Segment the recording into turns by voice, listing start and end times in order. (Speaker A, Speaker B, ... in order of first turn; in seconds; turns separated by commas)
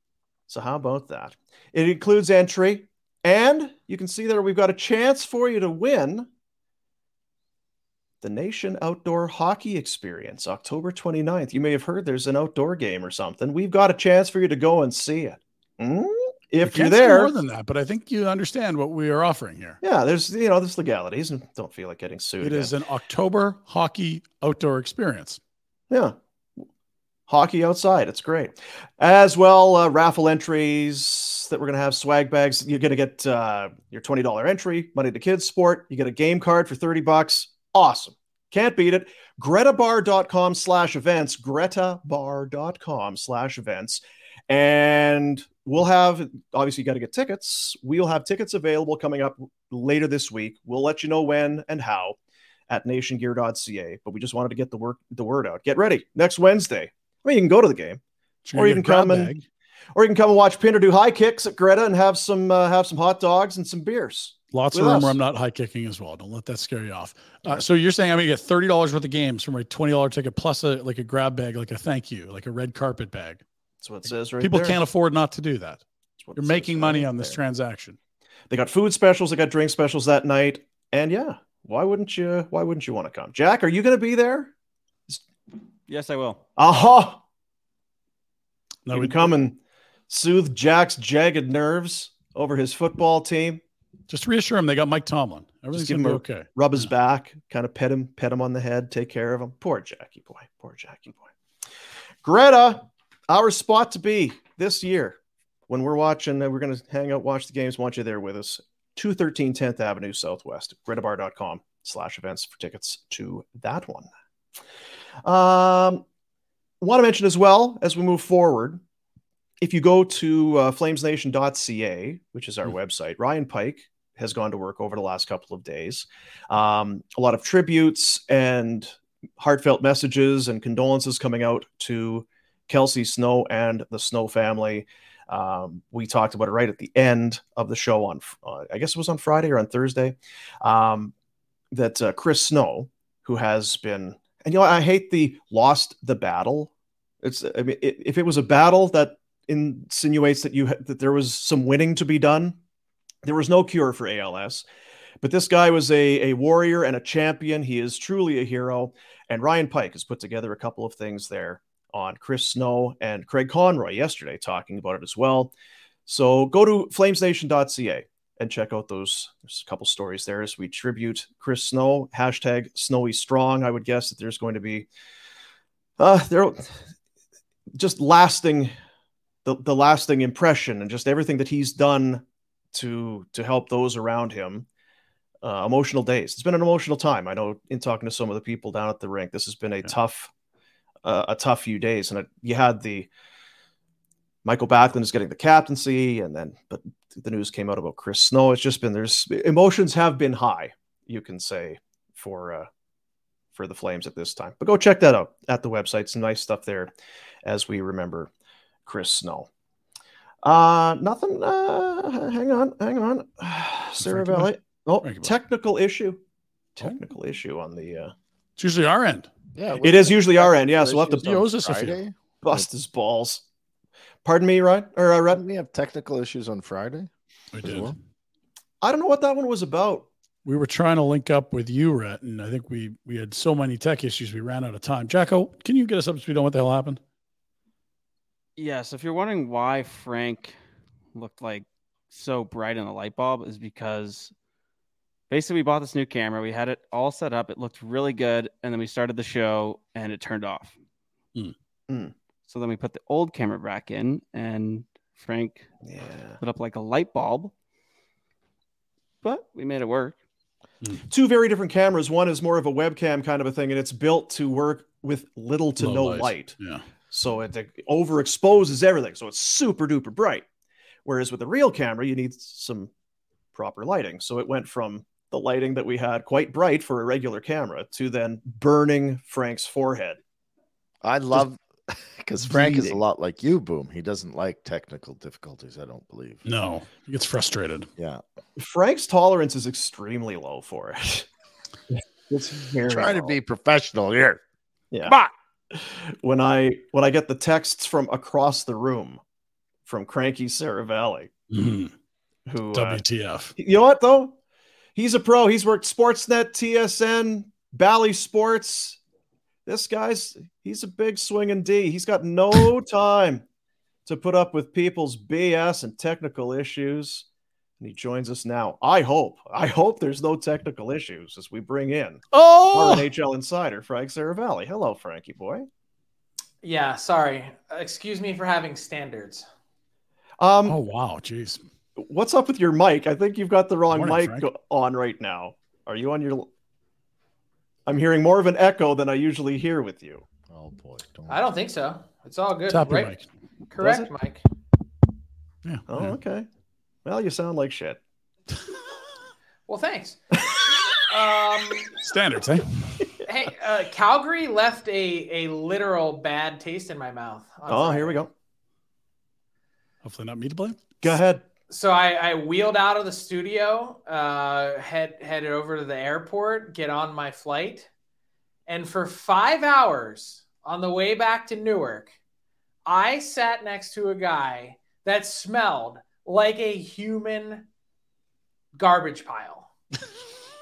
Speaker A: 0.5-6.3, Speaker A: 8.2-17.4, Speaker B: 16.6-19.8, Speaker A: 19.8-22.8, Speaker B: 22.4-25.4, Speaker A: 25.9-26.6, Speaker A: 27.3-52.2, Speaker A: 52.7-58.0, Speaker B: 58.5-59.4, Speaker A: 58.5-59.3, Speaker A: 60.0-65.2, Speaker B: 64.5-73.4, Speaker A: 73.8-74.8, Speaker B: 74.1-75.8, Speaker A: 76.2-77.3, Speaker B: 76.4-78.0, Speaker A: 78.5-84.5, Speaker C: 85.9-86.4, Speaker A: 86.6-87.2, Speaker B: 88.9-89.3, Speaker A: 88.9-89.6, Speaker A: 90.1-93.6, Speaker B: 94.1-96.9, Speaker A: 95.7-101.3, Speaker A: 102.2-105.2, Speaker A: 105.7-114.1, Speaker A: 115.2-116.0, Speaker A: 116.8-118.8, Speaker A: 119.6-141.1, Speaker A: 141.7-146.7, Speaker A: 147.2-152.6, Speaker A: 153.2-154.7, Speaker A: 155.2-165.5, Speaker A: 166.1-174.9, Speaker A: 176.0-176.7, Speaker A: 177.8-178.7, Speaker A: 179.4-184.7, Speaker A: 185.4-190.3, Speaker A: 191.0-193.1, Speaker A: 194.4-202.7, Speaker A: 203.5-206.9, Speaker A: 207.4-208.3, Speaker A: 208.9-209.5, Speaker A: 210.4-216.2, Speaker B: 214.0-214.5, Speaker B: 215.0-215.3, Speaker A: 216.8-218.1, Speaker B: 218.6-219.3, Speaker D: 219.6-222.7, Speaker A: 219.8-221.3, Speaker B: 221.2-222.0, Speaker A: 222.4-223.4, Speaker A: 224.2-225.4, Speaker D: 225.3-227.1, Speaker B: 227.5-228.0, Speaker D: 227.6-227.9, Speaker A: 228.8-230.1, Speaker B: 230.4-237.0, Speaker C: 238.6-240.6, Speaker C: 241.1-244.3, Speaker C: 245.3-250.8, Speaker C: 252.5-255.7, Speaker A: 255.8-256.4, Speaker C: 256.4-257.5, Speaker C: 259.2-260.2, Speaker A: 261.1-266.6, Speaker B: 265.8-266.9, Speaker A: 267.1-270.4, Speaker A: 271.1-272.9, Speaker A: 273.5-280.2, Speaker D: 281.0-286.4, Speaker B: 282.4-283.0, Speaker B: 286.4-287.9, Speaker D: 288.0-288.2, Speaker A: 288.6-291.3, Speaker A: 292.3-293.4, Speaker D: 292.9-294.4, Speaker A: 294.9-295.2, Speaker D: 295.1-295.3, Speaker A: 295.7-299.2, Speaker A: 299.9-301.3, Speaker B: 301.5-301.9, Speaker A: 302.5-303.0, Speaker B: 302.7-303.5, Speaker A: 303.6-304.4, Speaker A: 305.0-309.0, Speaker A: 309.7-313.4, Speaker A: 314.1-317.3, Speaker A: 317.8-325.7, Speaker B: 322.3-323.0, Speaker E: 326.6-329.5, Speaker A: 330.4-330.8, Speaker B: 330.7-331.6, Speaker A: 332.0-336.5, Speaker B: 333.9-334.5, Speaker A: 337.9-340.3, Speaker D: 340.5-341.5, Speaker E: 341.3-343.1, Speaker B: 342.7-343.3, Speaker E: 343.7-344.4, Speaker A: 343.8-344.1, Speaker B: 345.6-346.2, Speaker A: 345.9-346.5, Speaker A: 347.1-348.0, Speaker E: 349.7-350.2, Speaker E: 351.1-351.9, Speaker B: 352.0-352.9, Speaker E: 353.3-358.3, Speaker A: 357.7-358.3, Speaker B: 360.0-361.1, Speaker A: 361.0-361.4, Speaker E: 361.7-367.9, Speaker E: 368.7-372.1, Speaker E: 372.9-377.7, Speaker E: 378.8-379.7